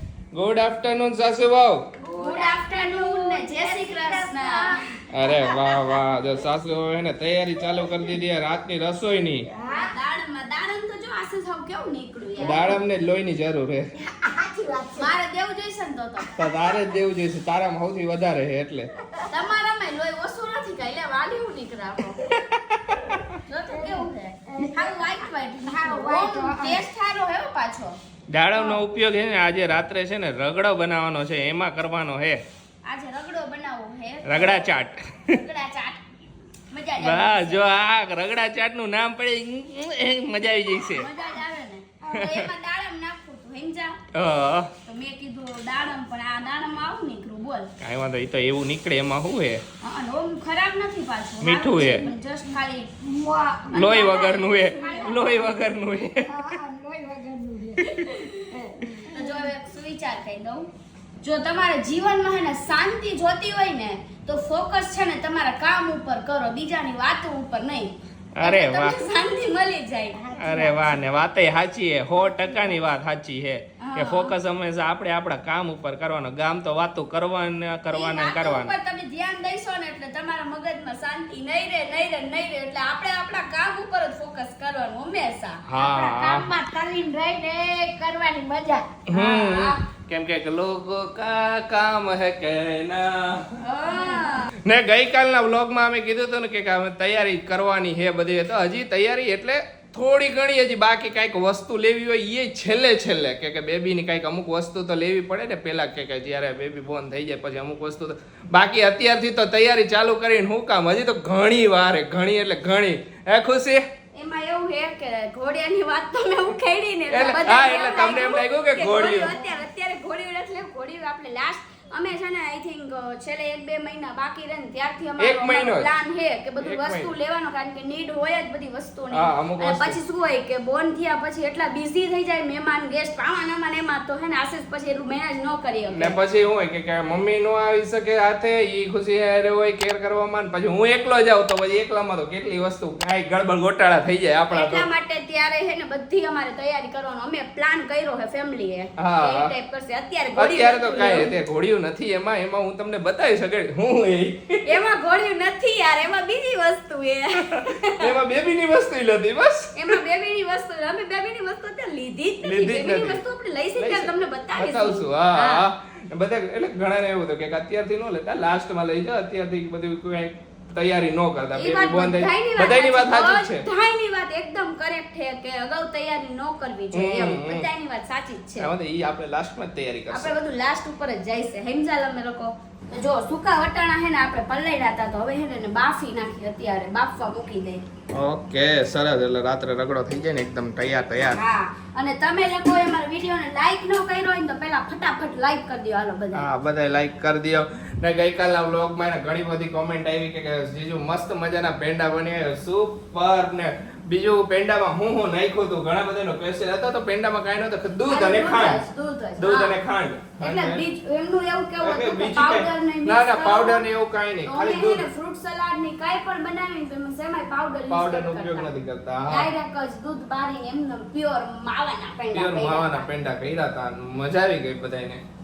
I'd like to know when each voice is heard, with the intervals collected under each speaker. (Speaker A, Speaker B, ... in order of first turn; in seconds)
Speaker A: 0.3-1.8, 5.1-9.5, 12.4-13.8, 16.4-18.9, 22.5-23.2, 28.3-32.4, 34.2-35.3, 37.0-41.1, 42.1-42.5, 44.1-44.7, 47.8-49.6, 51.4-52.1, 53.7-56.3, 68.3-69.0, 70.4-78.7, 85.7-86.5, 89.1-93.4, 94.6-113.8, 117.1-119.3, 125.2-125.9, 126.6-127.1, 129.1-130.0, 135.9-144.8, 149.0-149.5, 150.3-154.8, 157.5-160.0, 162.4-163.2, 163.8-173.6, 176.9-177.7, 178.6-180.3, 188.1-191.4, 196.3-208.8, 209.4-210.8, 211.8-215.1, 217.9-219.5, 222.3-225.2
Speaker B: 2.0-4.8, 5.5-5.8, 7.7-8.1, 9.5-9.9, 14.1-15.1, 23.7-26.8, 53.0-55.4, 56.2-57.9, 58.5-59.3, 70.1-71.0, 85.8-88.9
Speaker C: 2.1-4.8, 9.7-12.7, 15.0-16.3, 19.3-22.4, 23.4-28.0, 32.8-36.0, 36.7-37.7, 40.9-44.0, 44.9-47.7, 49.8-52.9, 53.7-55.5, 58.0-58.6, 59.1-60.7, 61.2-70.2, 73.8-74.3, 77.9-85.6, 89.1-89.8, 93.6-94.5, 114.1-136.2, 144.5-151.3, 154.6-158.2, 159.8-165.6, 171.5-178.7, 180.1-187.8, 191.3-196.5, 208.1-209.8, 210.4-213.8, 214.4-218.7, 219.3-223.1